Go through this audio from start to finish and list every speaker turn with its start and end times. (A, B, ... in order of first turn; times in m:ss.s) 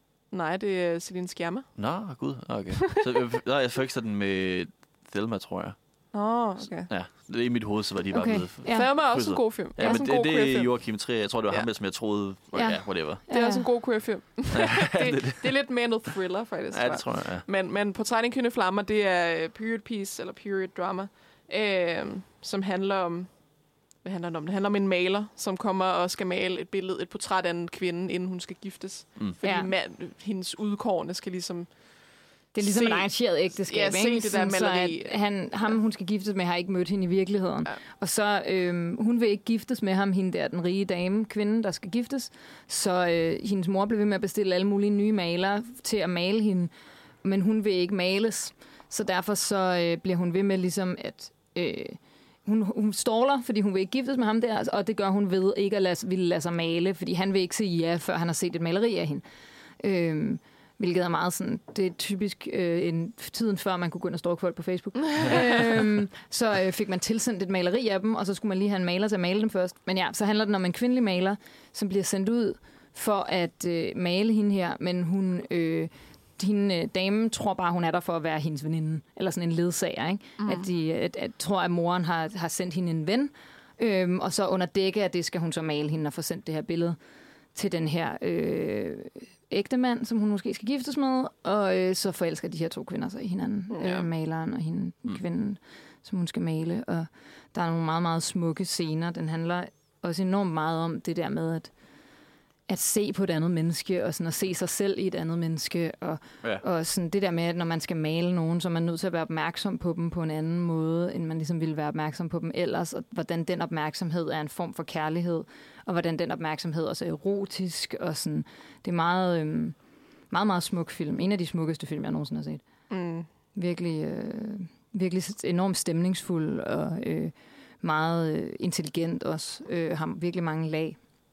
0:00.3-0:02.0 A
0:01.8-0:13.2 B
0:06.1-0:06.9 A
0:08.1-0:10.0 C
0:08.7-0:11.7 A
0:12.5-0:13.7 C
0:13.3-0:35.2 A
0:14.5-0:15.6 B
0:16.7-0:17.5 B
0:29.4-0:29.7 C
0:32.5-0:46.7 C
0:47.2-0:59.2 C
0:59.8-1:27.0 C
1:05.2-1:05.4 A
1:20.4-1:20.7 A
1:27.5-1:42.0 C
1:33.7-1:34.1 A
1:42.7-1:59.8 C
2:00.3-2:02.9 C
2:02.9-2:03.3 A
2:03.5-2:11.0 C